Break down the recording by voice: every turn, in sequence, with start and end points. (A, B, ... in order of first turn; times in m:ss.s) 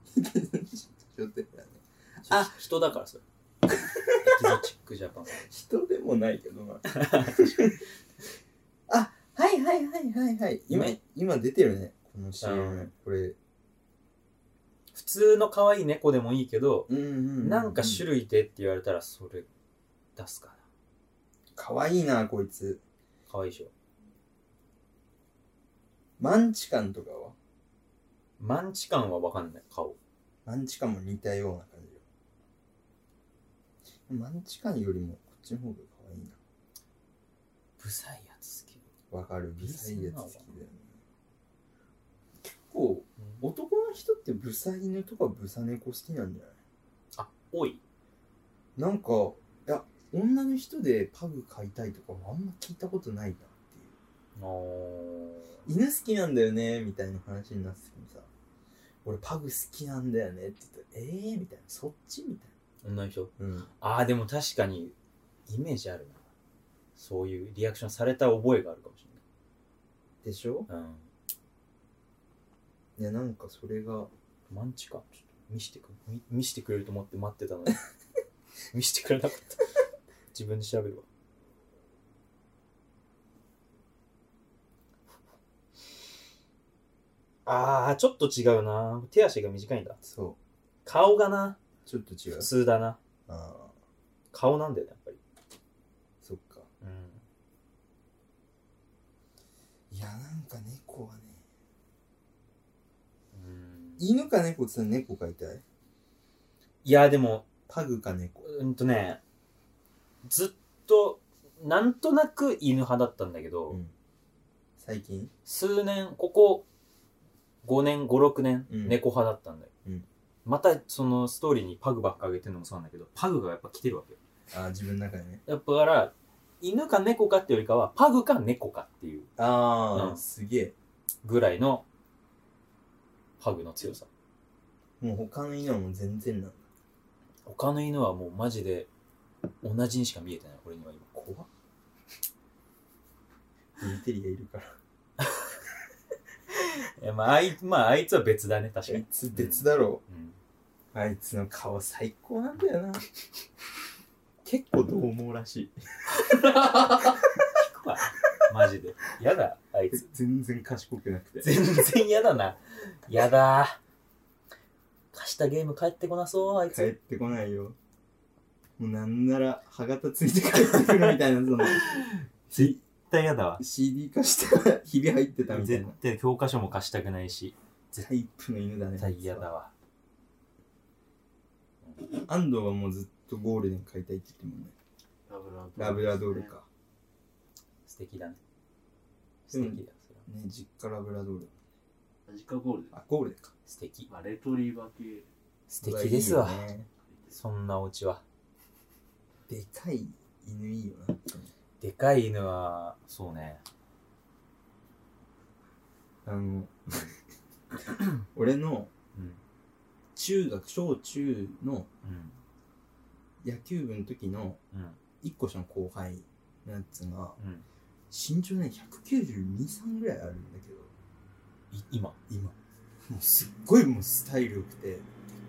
0:00.1-0:02.6 A
0:02.2-0:03.2 B
0:03.7-0:04.6 A
0:04.2-0:05.4 B
0:05.3-0:07.8 A
0:06.9-0:07.5 B
0:08.9-0:13.4 A
0:10.7-0:11.0 B
0:12.4-0:12.9 B
0:14.9-0:19.5 B
0:16.9-0:18.0 A
0:20.2-0:20.6 B
0:21.6-0:22.8 A
0:23.3-0:23.7 B
0:26.2-0:27.4 A
0:28.4-0:30.0 B
0:30.4-0:32.0 A
0:34.1-0:36.4 A
0:37.8-0:38.9 B
0:39.1-0:41.0 A
0:39.6-0:40.5 B
0:42.4-0:46.6 A
0:47.1-0:47.8 B
0:48.8-0:54.0 A
0:54.4-0:55.6 B
0:55.6-0:58.3 A
0:59.0-1:02.5 A
1:02.8-1:04.9 B
1:03.4-1:03.7 A
1:05.5-1:06.2 B
1:07.0-1:09.2 B
1:10.2-1:10.7 A
1:10.7-1:11.1 B
1:13.0-1:14.1 A
1:14.5-1:17.8 B
1:18.7-1:19.7 B
1:20.3-1:21.0 B
1:27.4-1:30.0 B
1:30.0-1:30.4 A
1:30.8-1:31.6 B
1:31.8-1:32.5 A
1:32.4-1:33.0 B
1:33.3-1:33.7 A
1:34.3-1:35.2 B
1:36.2-1:36.7 A
1:36.8-1:37.2 B
1:39.9-1:41.4 A
1:43.3-1:44.1 B
1:44.0-1:45.6 A
1:46.8-1:47.5 B
1:47.7-1:48.5 A
1:48.4-1:49.2 B
1:50.2-1:53.8 B
1:54.8-1:55.3 A
1:55.4-1:56.6 B
1:57.6-1:59.7 B
1:58.7-1:59.0 A
2:00.4-2:04.2 B
2:04.5-2:05.4 A
2:05.4-2:09.3 B
2:09.4-2:10.7 A
2:09.9-2:10.2 B
2:11.2-2:11.8 B
2:13.4-2:14.1 B
2:15.0-2:16.6 A
2:17.4-2:18.9 B
2:19.6-2:21.1 B
2:21.1-2:21.5 A
2:23.8-2:24.8 A
2:25.2-2:25.5 B
2:26.5-2:30.4 B
2:28.9-2:30.0 A
2:30.9-2:33.0 A
2:34.4-2:37.1 A
2:36.3-2:36.9 B
2:37.5-2:40.0 B
2:39.9-2:41.6 A
2:41.4-2:43.8 B
2:45.1-2:46.9 B
2:46.7-2:47.8 A
2:48.8-2:52.8 A
2:51.7-2:53.6 B
2:53.6-2:56.0 A
2:55.5-2:58.1 B
2:58.0-2:59.4 A
2:59.0-2:59.7 B
3:02.2-3:04.7 A
3:05.3-3:06.5 C
3:05.8-3:06.6 A
3:07.8-3:08.4 B
3:09.5-3:10.2 B
3:09.5-3:11.5 A
3:12.3-3:12.9 C
3:12.9-3:13.5 A
3:13.7-3:14.1 B
3:14.1-3:15.3 C
3:15.7-3:16.7 B
3:15.8-3:16.9 A
3:17.1-3:17.3 C
3:17.3-3:18.2 B
3:19.5-3:21.5 A
3:21.8-3:23.6 B
3:26.2-3:27.0 A
3:27.9-3:28.9 A
3:29.1-3:29.4 B
3:30.2-3:31.9 A
3:32.0-3:32.4 B
3:33.4-3:34.6 A
3:34.7-3:35.0 B
3:35.2-3:37.4 A
3:37.4-3:37.6 B
3:38.1-3:40.9 A
3:41.7-3:42.2 B
3:42.3-3:42.5 A
3:43.1-3:45.0 A